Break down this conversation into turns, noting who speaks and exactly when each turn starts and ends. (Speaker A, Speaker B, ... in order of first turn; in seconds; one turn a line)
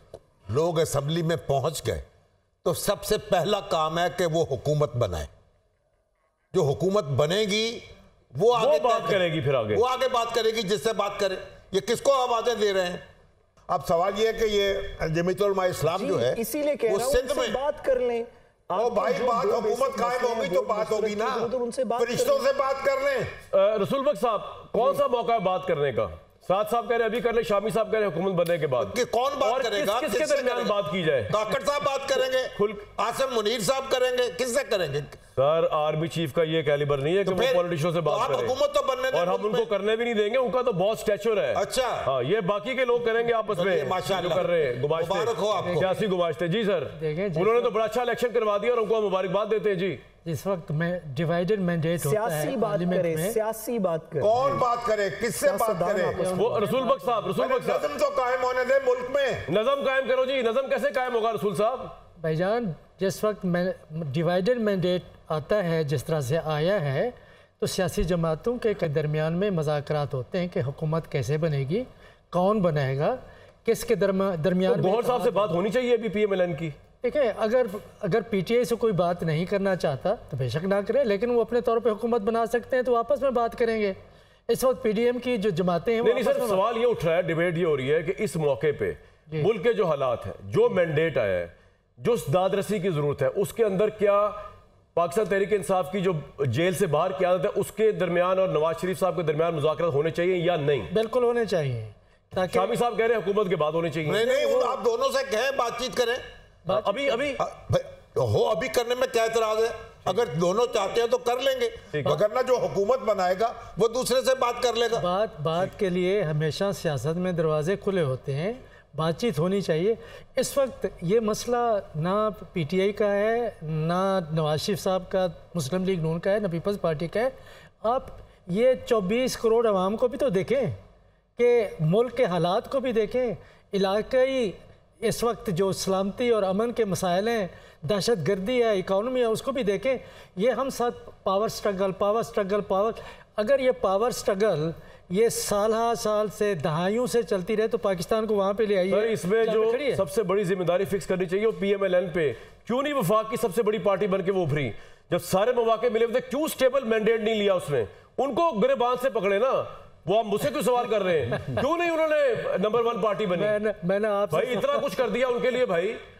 Speaker A: 0.5-2.0
Speaker A: 2.6-5.3
Speaker A: 6.5-13.0
Speaker B: 8.5-9.8
Speaker A: 13.7-17.6
Speaker C: 15.9-22.5
Speaker A: 18.7-23.3
Speaker B: 23.5-31.4
Speaker A: 28.8-30.8
Speaker A: 31.3-35.2
Speaker B: 32.5-32.9
Speaker B: 35.4-38.6
Speaker A: 37.2-39.7
Speaker B: 39.1-50.0
Speaker A: 41.5-42.1
Speaker A: 43.5-45.9
Speaker D: 45.6-46.0
Speaker D: 46.9-47.8
Speaker D: 50.2-53.4
Speaker C: 52.0-54.6
Speaker A: 54.2-56.2
Speaker C: 55.4-56.4
Speaker D: 56.2-57.3
Speaker B: 56.3-57.9
Speaker A: 57.4-59.5
Speaker B: 59.5-62.0
Speaker D: 62.2-75.5
Speaker B: 74.7-76.8
Speaker D: 77.0-84.0
Speaker D: 84.5-86.6
Speaker B: 86.0-100.9
Speaker D: 100.9-102.8
Speaker B: 102.5-104.2
Speaker A: 104.1-106.2
Speaker D: 104.2-104.8
Speaker D: 106.7-107.3
Speaker B: 106.7-107.4
Speaker A: 107.4-115.0
Speaker B: 111.9-112.2
Speaker D: 114.9-130.8
Speaker D: 131.4-150.0
Speaker B: 148.9-163.6
Speaker D: 163.3-165.0
Speaker B: 164.3-166.0